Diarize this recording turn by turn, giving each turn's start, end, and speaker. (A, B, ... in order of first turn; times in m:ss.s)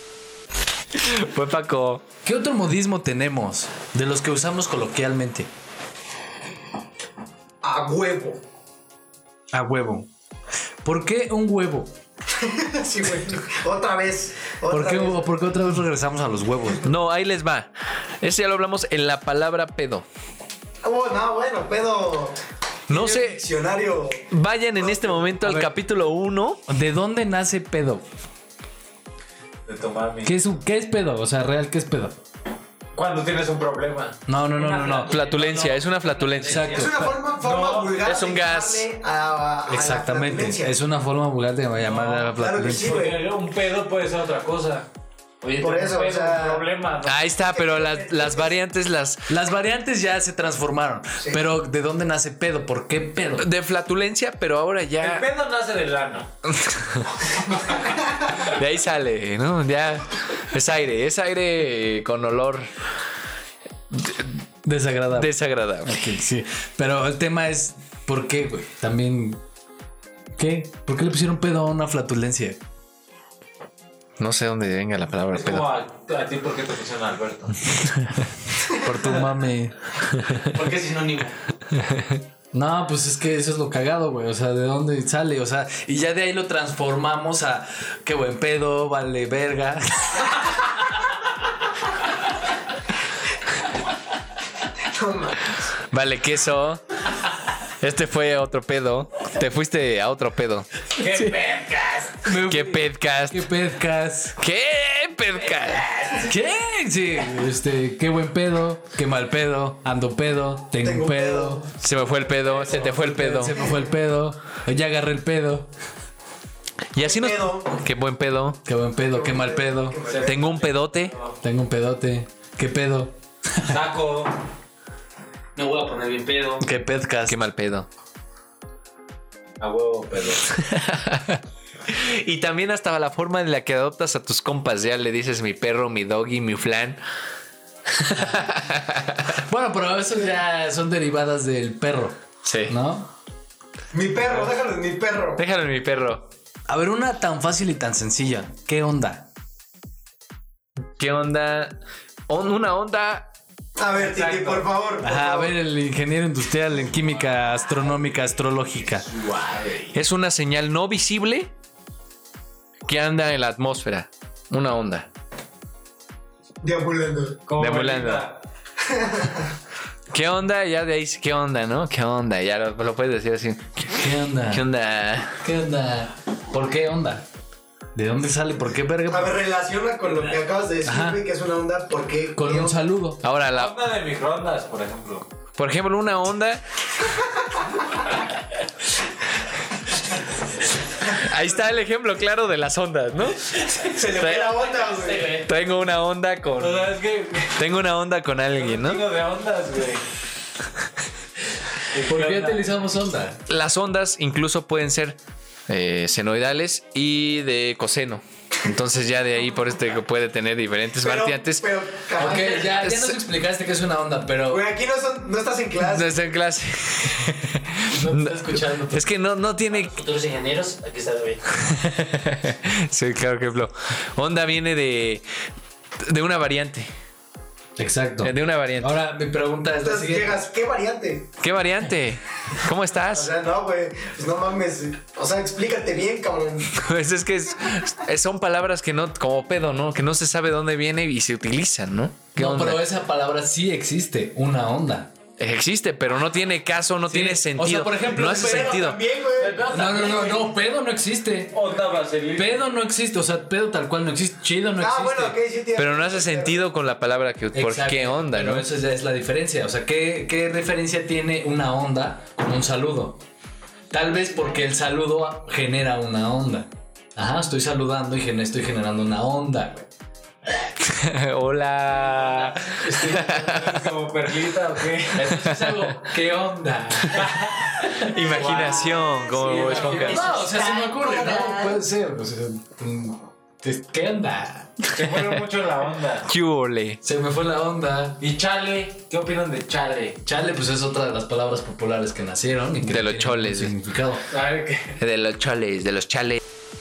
0:01.0-0:02.1 A
0:02.2-0:05.5 B
0:07.6-0:08.4 C
0:09.5-0:10.1 B
0:10.8-0:12.0 B
0:12.3-0:15.5 C
0:14.7-0:16.9 B
0:16.8-0:20.0 A
0:20.8-0:22.4 C
0:22.9-0:23.4 A
0:22.9-0:25.4 C
0:24.3-0:26.6 A
0:25.4-0:25.7 B
0:26.7-0:28.0 B
0:29.7-0:30.4 D
0:30.2-0:32.2 B
0:32.9-0:34.2 D
0:34.3-0:35.1 B
0:34.6-0:36.8 E
0:35.1-0:36.8 A
0:36.4-0:37.2 B
0:36.7-0:40.8 C
0:37.4-0:38.0 D
0:38.0-0:38.8 A
0:39.7-0:43.0 B
0:41.8-0:44.9 D
0:42.3-0:43.2 C
0:45.4-0:47.2 D
0:45.6-0:46.7 C
0:47.0-0:49.2 A
0:47.5-0:48.6 C
0:49.3-0:53.5 B
0:53.4-0:55.3 A
0:55.0-0:56.3 D
0:56.5-0:57.3 A
0:58.3-1:02.7 A
1:03.9-1:04.4 A
1:04.6-1:05.3 B
1:05.2-1:06.0 A
1:05.8-1:09.4 B
1:10.4-1:12.6 B
1:14.2-1:15.7 A
1:15.3-1:17.6 D
1:18.7-1:19.8 B
1:20.5-1:21.4 E
1:21.7-1:22.2 A
1:22.5-1:30.4 B
1:34.8-1:35.6 C
1:35.8-1:37.0 A
1:37.7-1:40.8 A
1:41.0-1:42.3 D
1:41.0-1:41.4 B
1:42.2-1:44.4 B
1:42.4-1:43.5 A
1:44.4-1:45.9 A
1:46.2-1:51.7 B
1:50.8-1:51.7 C
1:51.8-1:53.6 A
1:52.7-1:55.7 B
1:56.9-1:58.6 A
1:57.0-1:57.8 C
1:58.6-2:00.0 B
1:59.1-2:00.7 C
2:00.0-2:01.4 D
2:00.2-2:01.2 A
2:01.4-2:03.8 B
2:03.6-2:04.4 D
2:05.6-2:06.7 E
2:06.6-2:07.4 B
2:07.3-2:07.9 A
2:09.6-2:10.5 D
2:10.6-2:17.0 A
2:17.9-2:19.4 A
2:19.5-2:23.1 B
2:22.4-2:22.8 A
2:23.9-2:25.4 C
2:25.4-2:26.3 A
2:26.7-2:29.3 B
2:31.0-2:31.8 A
2:32.3-2:33.3 A
2:33.8-2:35.6 C
2:34.0-2:34.7 D
2:35.0-2:39.1 B
2:39.1-2:39.9 D
2:39.9-2:41.5 A
2:42.9-2:45.1 A
2:46.6-2:47.4 C
2:47.5-2:48.4 D
2:47.6-2:48.2 A
2:48.8-2:49.5 C
2:50.1-2:54.0 A
2:53.9-2:54.6 B
2:54.5-2:55.4 A
2:55.4-2:57.2 B
2:58.0-2:59.4 B
2:59.1-3:02.8 C
3:00.8-3:01.2 B
3:02.4-3:03.2 B
3:03.2-3:03.8 A
3:03.5-3:05.3 D
3:05.6-3:06.6 A
3:07.2-3:07.9 C
3:11.0-3:14.7 A
3:13.9-3:15.4 C
3:14.8-3:15.4 E
3:15.3-3:17.0 A
3:16.6-3:17.6 D
3:17.5-3:19.1 A
3:18.5-3:20.0 D
3:21.9-3:22.7 D
3:22.0-3:23.4 B
3:23.5-3:31.7 A
3:31.0-3:32.8 C
3:32.2-3:34.7 B
3:32.2-3:33.2 A
3:34.5-3:36.2 C
3:35.8-3:40.0 A
3:37.9-3:39.1 B
3:39.7-3:41.4 E
3:41.5-3:45.2 A
3:46.0-3:46.9 A
3:47.8-3:50.4 B
3:48.2-3:49.0 A
3:49.8-3:51.4 C
3:51.4-3:53.3 A
3:53.1-3:56.7 C
3:56.7-4:02.8 A
4:02.4-4:05.1 B
4:05.4-4:09.0 A
4:07.1-4:08.8 B
4:08.0-4:09.7 C
4:09.4-4:10.5 D
4:09.7-4:11.7 B
4:11.5-4:12.6 D
4:12.4-4:15.4 B
4:14.8-4:16.7 C
4:15.8-4:18.7 A
4:17.5-4:23.2 B
4:23.9-4:29.9 B
4:30.8-4:33.9 A
4:32.8-4:33.7 B
4:33.2-4:35.4 D
4:35.2-4:38.2 B
4:35.3-4:35.9 A
4:37.2-4:40.4 D
4:38.0-4:40.4 A
4:39.6-4:44.8 B
4:40.1-4:41.6 E
4:44.9-4:46.3 D
4:46.3-4:47.0 A
4:47.0-4:48.2 B
4:48.2-4:50.2 D
4:50.2-4:54.3 B
4:52.8-4:53.7 A
4:54.3-4:55.0 D
4:55.0-4:56.4 A